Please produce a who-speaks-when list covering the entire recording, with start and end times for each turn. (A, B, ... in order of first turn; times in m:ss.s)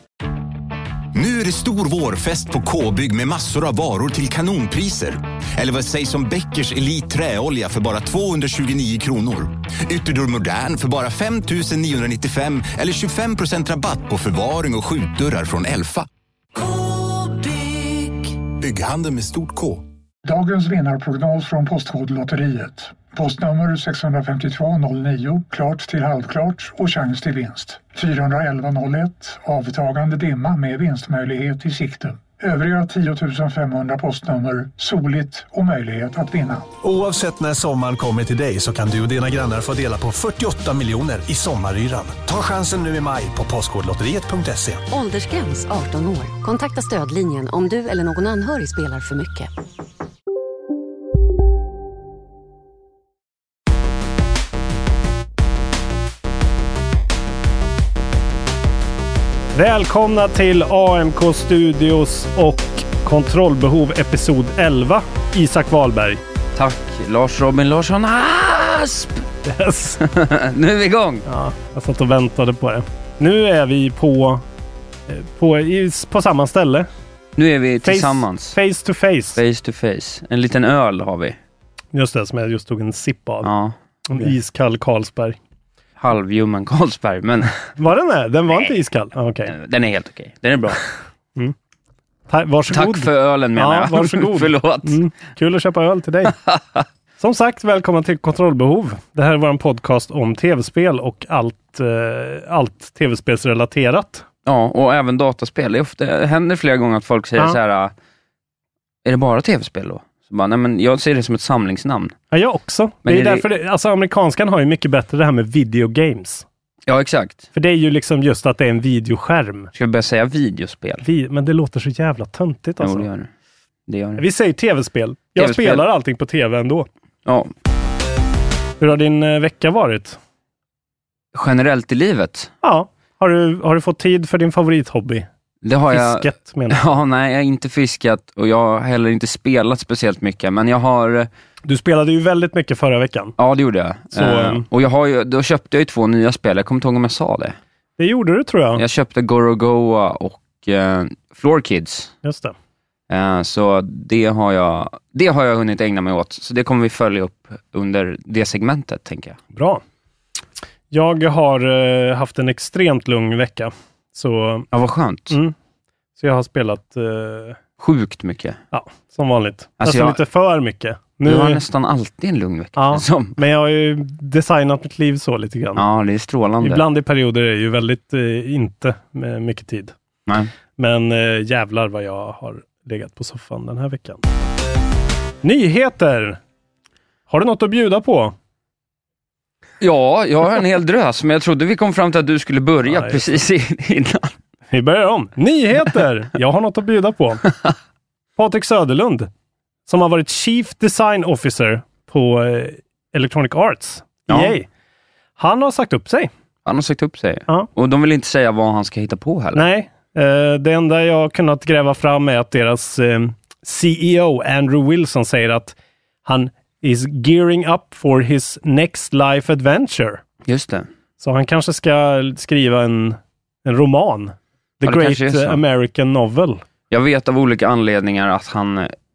0:01.1-0:19.8 A
0:20.2-0:36.7 B
0:36.8-0:44.8 C
0:44.9-0:49.5 D
0:59.6-1:06.2 E
1:06.6-1:09.2 F
1:09.4-1:10.0 E
1:10.0-1:11.2 F
1:11.3-1:14.4 E
1:15.1-1:16.9 E
1:17.4-1:18.6 F
1:17.8-1:19.4 E
1:19.4-1:21.4 F
1:21.9-1:23.5 E
1:23.4-1:24.3 F
1:24.1-1:25.4 E
1:26.0-1:27.6 F
1:27.7-1:29.5 E
1:29.5-1:30.8 F
1:32.3-1:36.4 E
1:32.7-1:35.0 F
1:36.4-1:36.8 F
1:37.2-1:44.2 E
1:44.4-1:47.9 F
1:49.0-1:52.1 F
1:52.3-1:56.4 E
1:53.0-1:53.5 F
1:56.9-1:57.5 F
1:57.5-1:59.7 E
1:59.8-2:01.0 F
2:01.0-2:03.1 E
2:02.8-2:03.3 F
2:03.9-2:04.2 F
2:04.2-2:06.9 E
2:05.4-2:05.8 F
2:08.8-2:10.2 E
2:11.3-2:12.5 F
2:12.6-2:15.3 E
2:15.6-2:21.3 F
2:15.9-2:16.9 E
2:21.7-2:23.4 E
2:23.4-2:27.6 F
2:24.1-2:24.6 E
2:28.0-2:28.8 E
2:28.8-2:32.1 F
2:32.2-2:32.5 E
2:33.1-2:39.4 F
2:39.5-2:39.8 E
2:40.9-2:44.7 E
2:44.7-2:45.4 F
2:46.2-2:47.6 E
2:47.8-2:48.6 F
2:48.7-2:51.6 E
2:49.8-2:50.2 F
2:51.3-2:53.4 F
2:52.8-2:55.8 E
2:55.8-2:56.8 F
2:56.6-2:59.9 E
3:00.8-3:04.2 E
3:05.4-3:06.4 E
3:07.3-3:08.4 E
3:09.8-3:14.4 F
3:12.9-3:13.4 E
3:14.7-3:17.5 E
3:18.4-3:19.3 E
3:19.9-3:24.7 E
3:24.3-3:24.6 F
3:25.4-3:26.3 E
3:26.6-3:29.6 F
3:29.6-3:35.8 E
3:36.3-3:40.2 E
3:40.5-3:40.9 F
3:41.2-3:46.6 E
3:44.8-3:45.6 F
3:46.9-3:48.9 F